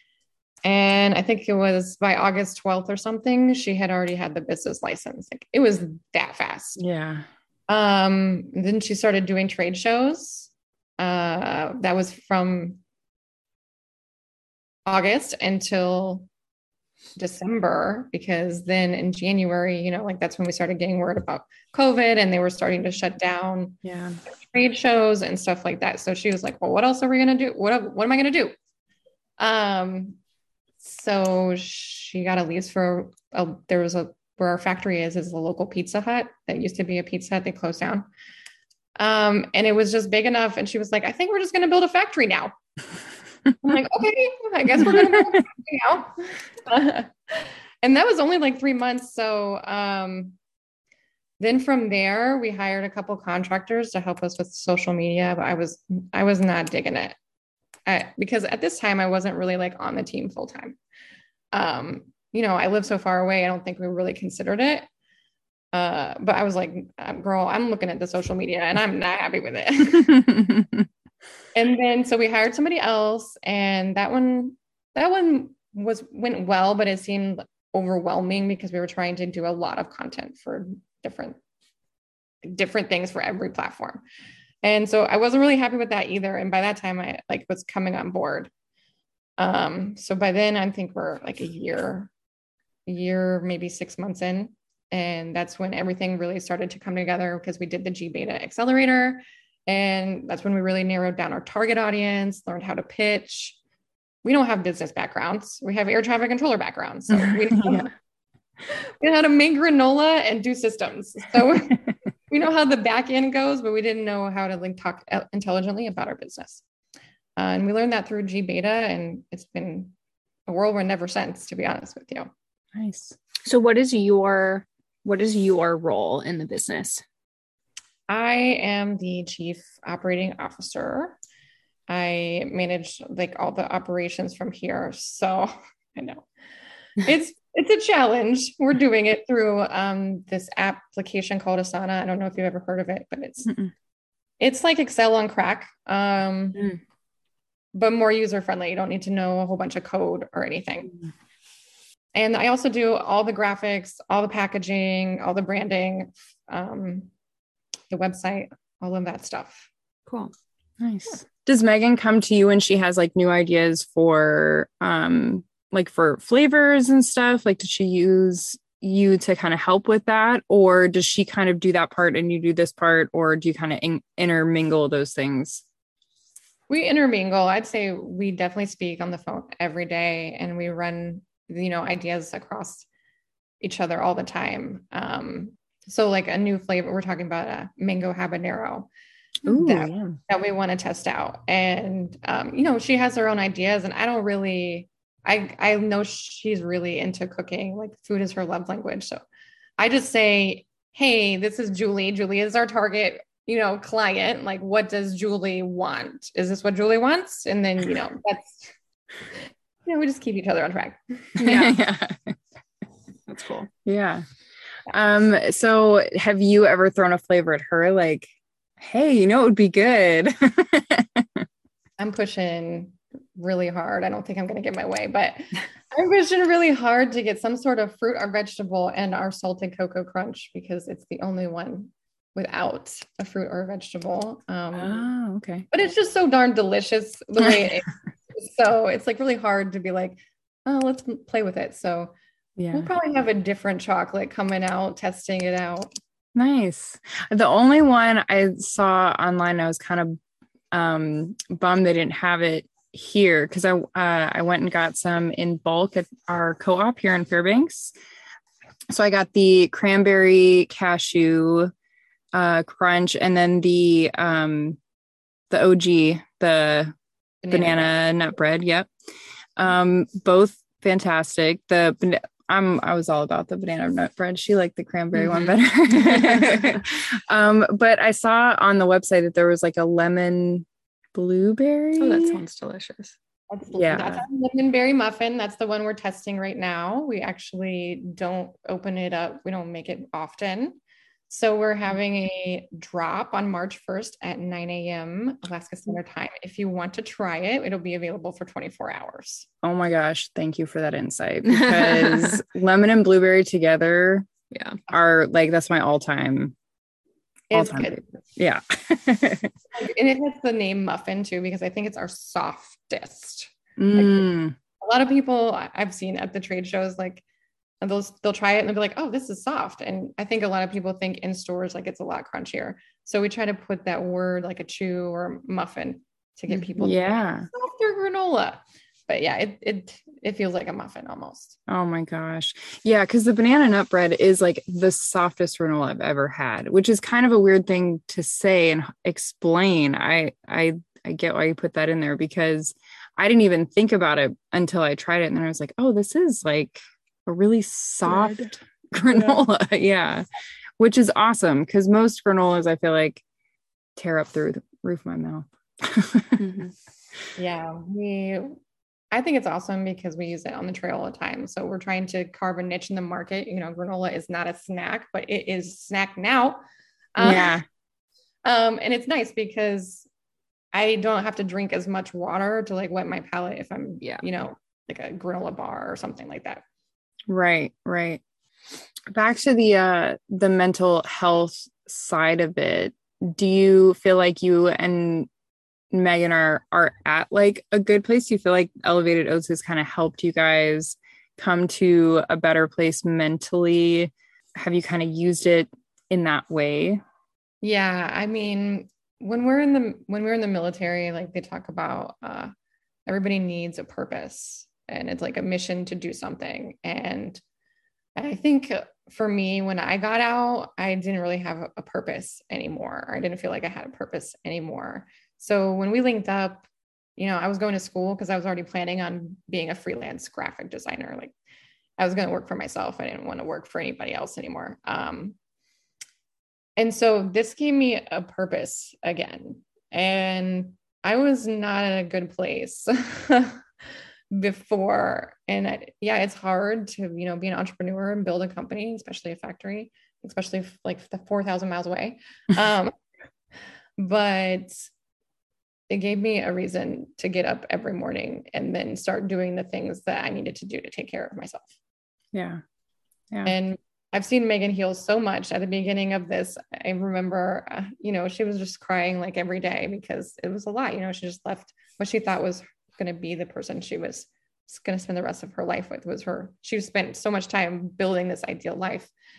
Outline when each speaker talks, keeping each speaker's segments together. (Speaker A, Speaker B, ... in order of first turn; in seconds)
Speaker A: 0.7-6.8, 7.7-12.8, 14.9-16.3, 17.2-28.6, 29.4-30.2, 30.8-38.1, 39.0-42.5, 43.6-50.4, 51.4-57.2, 57.9-60.8, 61.5-64.9, 65.7-70.3, 71.5-81.4, 82.4-84.0, 84.6-88.5, 89.4-92.1, 92.9-103.6, 104.2-107.9, 108.7-116.6, 117.4-119.9, 120.5-122.3, 128.1-131.2, 131.9-136.3, 137.0-143.6, 144.4-146.6, 147.7-150.9, 152.2-157.1, 157.9-159.7, 176.7-182.9, 183.6-188.9, 189.5-199.2, 199.8-208.7, 209.9-211.4, 222.0-235.1, 235.7-242.2, 242.7-245.9, 267.4-267.9, 283.5-290.8, 291.3-299.5, 307.5-308.1, 309.7-317.2, 317.8-331.6, 357.4-358.6, 359.1-366.6, 367.2-367.6, 368.4-370.1, 370.7-376.6, 397.6-402.5, 403.1-407.4, 408.2-416.6, 417.2-421.3, 422.0-425.4, 426.8-433.6, 434.3-442.9, 444.0-444.8, 445.9-451.7, 453.5-469.1
Speaker B: 6.8-7.3, 23.8-24.2, 44.9-45.1, 70.3-70.9, 107.3-107.8, 122.7-123.2, 160.8-175.6, 189.5-190.2, 211.4-212.4, 213.8-214.2, 214.9-218.3, 218.8-221.5, 234.8-235.7, 242.6-242.9, 246.3-250.2, 250.7-257.9, 258.9-261.7, 262.3-264.8, 265.5-266.9, 267.5-268.9, 269.6-282.4, 283.8-284.2, 299.6-304.3, 304.9-306.6, 307.5-309.5, 313.8-314.6, 326.5-327.5, 331.7-350.2, 350.8-353.2, 354.0-356.4, 367.2-367.6, 377.3-378.2, 379.1-385.3, 385.9-397.0, 452.3-452.6
Speaker C: 123.4-127.0, 160.1-160.3, 211.4-211.8, 213.3-213.7, 275.1-276.8, 282.0-283.1, 301.5-302.4, 304.5-304.8, 348.1-348.5, 349.1-349.4, 356.4-356.7